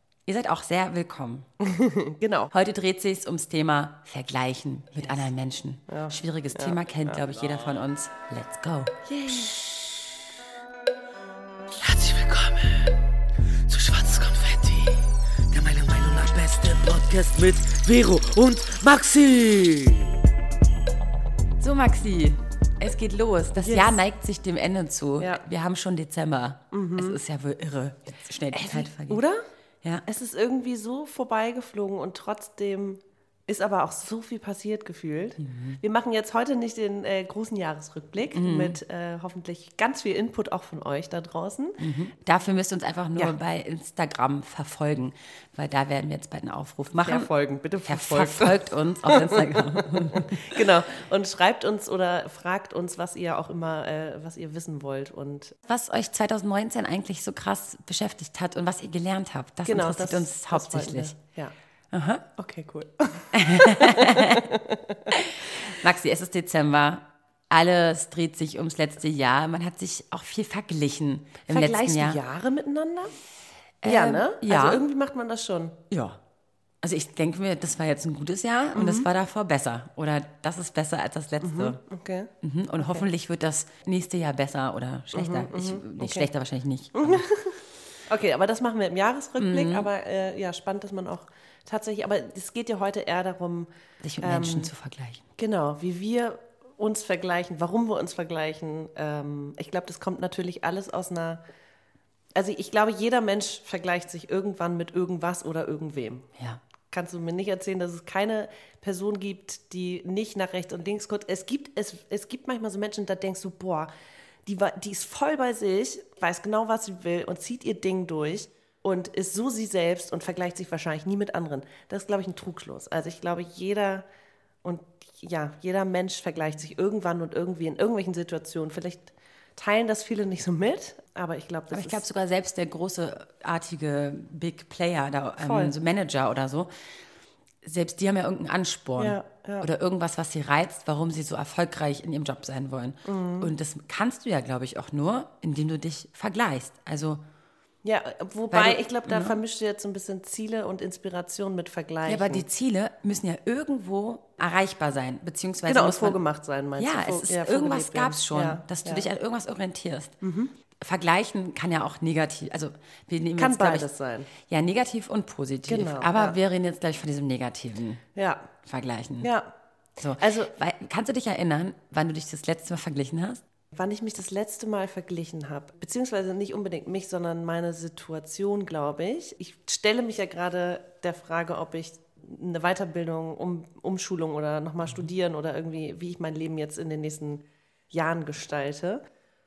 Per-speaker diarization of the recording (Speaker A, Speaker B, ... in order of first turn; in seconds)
Speaker A: 0.3-1.5, 2.5-8.9, 15.7-16.6, 18.4-19.0, 21.6-29.2, 35.4-35.8, 38.3-38.8, 41.8-47.3, 47.8-50.5, 55.7-61.1, 61.9-62.2, 63.3-64.5, 65.1-72.2, 73.8-74.8, 75.9-76.2, 76.8-81.8, 82.4-87.3, 89.4-89.9, 94.0-95.2, 131.7-136.7, 137.6-147.2, 148.5-149.3, 152.0-156.2, 156.8-160.2, 160.8-168.0, 168.6-169.3, 170.0-173.4
Speaker B: 1.6-2.5, 5.9-7.3, 9.1-9.7, 23.6-24.0, 26.7-27.2, 28.5-29.4, 30.1-41.8, 47.0-55.5, 59.6-61.5, 62.4-65.2, 71.5-73.2, 73.8-75.8, 78.7-79.1, 81.4-83.1, 85.1-86.3, 86.9-93.7, 94.2-94.7, 95.4-101.4, 102.3-106.3, 106.9-113.9, 114.4-124.0, 124.6-132.0, 135.4-135.7, 139.0-139.7, 143.0-143.5, 147.8-152.4, 155.7-159.1, 160.2-160.5, 163.4-164.3, 165.7-166.4, 168.1-168.5, 169.2-169.5, 170.2-170.5, 173.7-189.0
Speaker C: 17.2-20.1